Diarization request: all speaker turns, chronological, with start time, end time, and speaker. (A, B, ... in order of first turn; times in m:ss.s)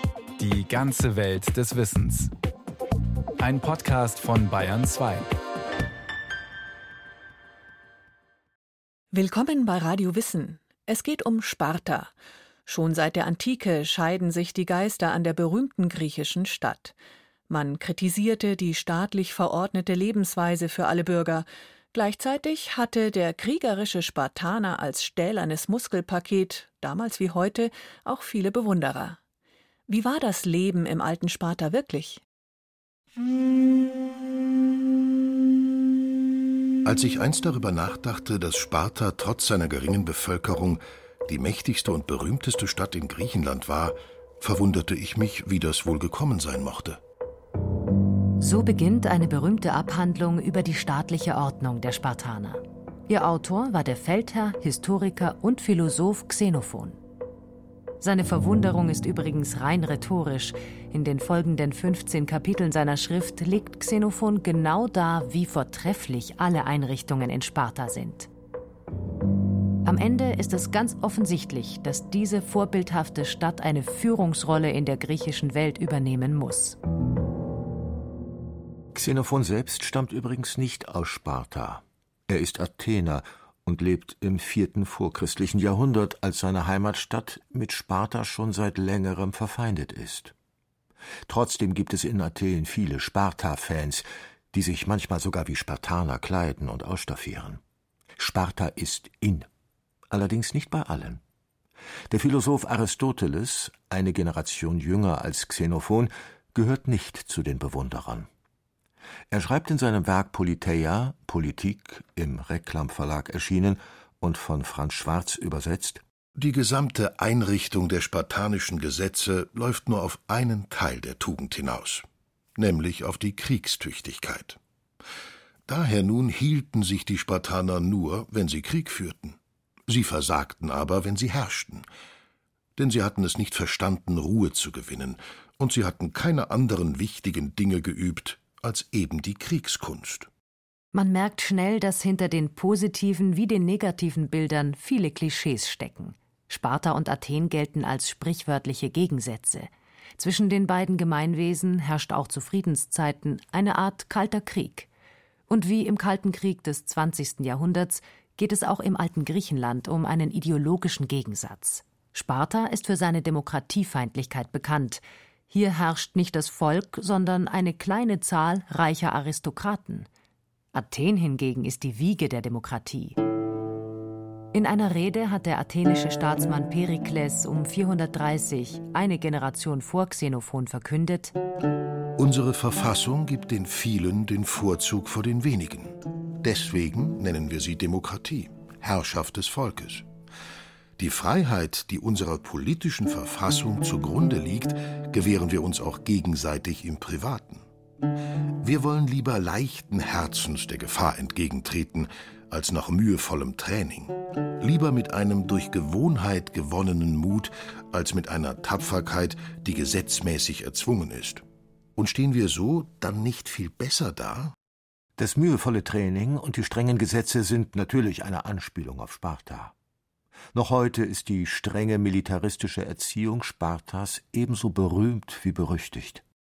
0:00.4-0:02.3 A
0:03.4-0:05.3 A
0:09.1-0:12.1 B
0:12.7-0:17.0 B
0:17.5-0:29.2 B
0:29.9-0:32.2 B
0:36.8-0:47.0 C
0:48.4-0:57.0 D
0:58.0-1:08.3 D
1:09.8-1:16.8 D
1:18.9-1:30.3 E
1:31.3-1:37.6 E
1:38.2-1:39.5 E
1:40.1-1:41.2 E
1:42.1-1:48.3 E
1:49.3-1:56.0 E
1:56.4-2:02.0 C
2:02.6-2:04.6 C
2:05.7-2:09.4 C
2:09.9-2:11.9 C
2:12.8-2:20.3 C
2:20.9-2:34.9 D
2:35.5-2:50.1 D
2:50.7-2:53.2 D
2:54.5-3:01.4 D
3:02.2-3:10.1 C
3:11.0-3:17.6 C
3:18.6-3:31.4 C
3:32.0-3:34.5 C
3:35.2-3:39.7 E
3:40.5-3:46.2 E